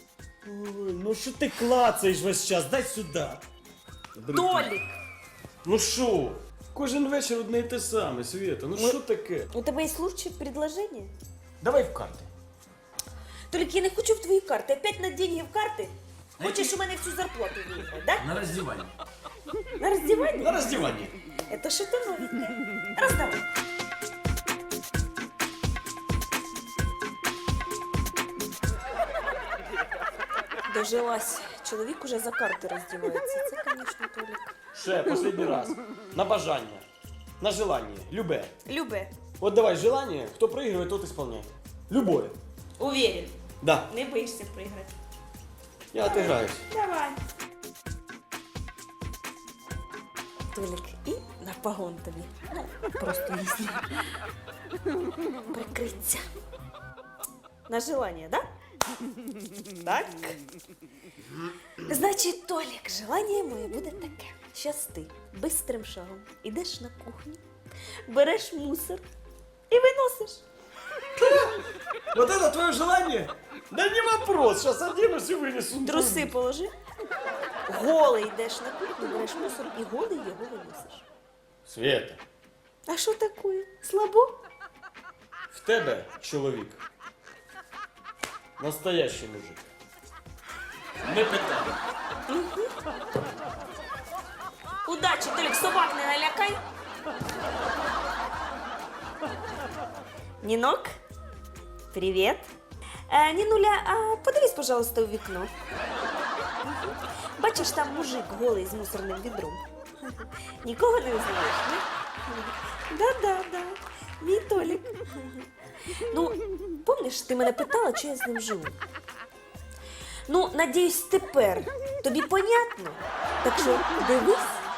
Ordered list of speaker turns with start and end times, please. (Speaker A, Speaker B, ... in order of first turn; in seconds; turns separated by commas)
Speaker A: 0.4-3.4, Speaker A: 4.2-4.7, Speaker B: 4.3-5.0, Speaker A: 5.6-9.5, Speaker B: 9.5-11.1, Speaker A: 11.6-12.3, Speaker B: 13.5-18.3, Speaker A: 16.4-16.8, Speaker A: 18.2-18.9, Speaker B: 19.8-20.7, Speaker A: 20.4-21.1, Speaker B: 21.5-23.4, Speaker B: 30.7-34.5, Speaker A: 34.8-36.8, Speaker A: 37.4-38.5, Speaker B: 38.6-39.1, Speaker A: 39.4-42.4, Speaker B: 42.8-43.4, Speaker A: 43.6-43.9, Speaker B: 43.9-44.9, Speaker A: 45.9-46.6, Speaker B: 46.0-47.2, Speaker B: 50.5-53.9, Speaker B: 55.5-56.3, Speaker B: 57.7-58.5, Speaker B: 59.8-60.4, Speaker B: 61.8-67.4, Speaker B: 68.1-69.0, Speaker B: 69.7-70.4, Speaker A: 72.1-76.3, Speaker B: 75.8-76.7, Speaker B: 77.7-81.1, Speaker A: 81.7-82.2, Speaker B: 82.9-84.3, Speaker A: 85.5-86.8, Speaker A: 88.6-89.7, Speaker A: 91.0-91.8, Speaker B: 92.3-92.7, Speaker B: 94.8-96.6, Speaker B: 100.4-100.9, Speaker B: 101.9-102.5, Speaker B: 103.1-105.5, Speaker B: 107.4-115.5, Speaker B: 116.1-118.8, Speaker B: 120.3-124.6